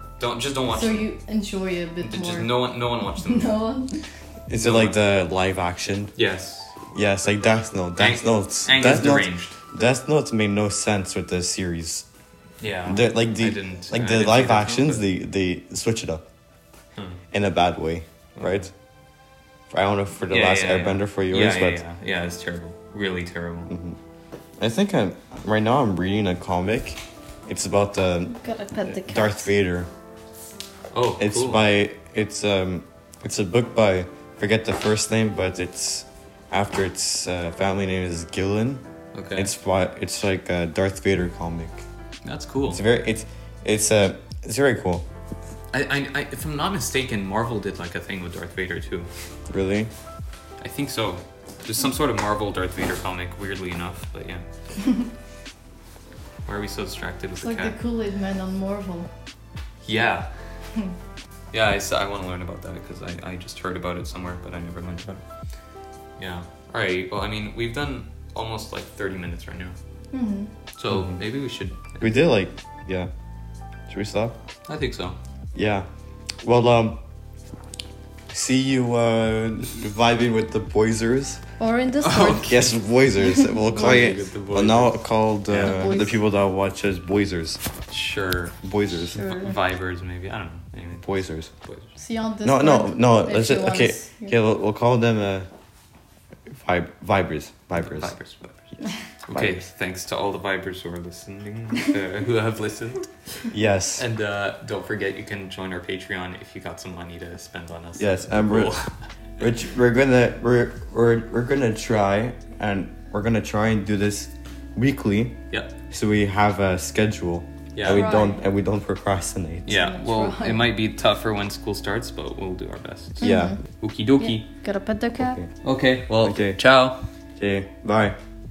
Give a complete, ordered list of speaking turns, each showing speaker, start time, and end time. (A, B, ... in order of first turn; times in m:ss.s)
0:00.2-0:01.1 A
0:00.7-0:02.5 B
0:02.0-0:03.6 A
0:03.2-0:04.0 B
0:04.5-0:06.1 C
0:04.5-0:05.0 A
0:06.2-0:06.8 A
0:06.9-0:12.1 C
0:08.0-0:09.6 A
0:12.6-0:15.1 A
0:12.9-0:16.2 C
0:17.3-0:18.7 C
0:18.4-0:18.7 A
0:19.7-0:21.8 C
0:20.3-0:23.7 A
0:23.7-0:24.0 C
0:24.6-0:29.9 C
0:28.4-0:29.5 B
0:30.9-0:31.7 A
0:31.2-0:38.8 C
0:39.1-0:39.5 A
0:39.4-0:41.8 C
0:42.2-0:42.8 A
0:42.7-0:45.1 C
0:45.7-0:49.1 A
0:49.5-0:49.9 C
0:50.6-0:54.5 A
0:56.5-0:57.8 A
0:57.4-0:59.1 B
0:59.8-1:00.3 A
1:01.5-1:05.2 A
1:06.2-1:09.8 A
1:10.1-1:10.5 B
1:10.8-1:12.2 A
1:10.9-1:11.2 C
1:12.0-1:13.1 C
1:13.9-1:14.4 C
1:14.7-1:15.2 A
1:15.6-1:15.9 C
1:16.4-1:17.0 C
1:18.3-1:21.4 C
1:21.6-1:24.2 B
1:22.0-1:22.7 A
1:22.4-1:27.6 C
1:23.7-1:25.8 A
1:25.6-1:26.2 B
1:27.9-1:28.6 A
1:28.6-1:29.3 C
1:29.1-1:29.6 B
1:29.2-1:31.1 A
1:31.0-1:31.5 C
1:32.0-1:34.4 B
1:32.4-1:35.5 C
1:36.5-1:38.1 C
1:37.8-1:43.1 A
1:39.3-1:39.6 C
1:43.5-1:44.0 C
1:44.0-1:49.0 A
1:48.0-1:48.8 C
1:49.4-1:59.8 C
1:57.7-1:58.1 A
1:57.8-1:58.4 B
1:59.7-2:04.5 A
1:59.7-2:00.7 B
2:03.2-2:03.6 B
2:03.2-2:03.6 C
2:04.2-2:05.4 B
2:05.2-2:05.5 C
2:05.6-2:07.0 A
2:06.2-2:06.6 C
2:07.4-2:08.2 C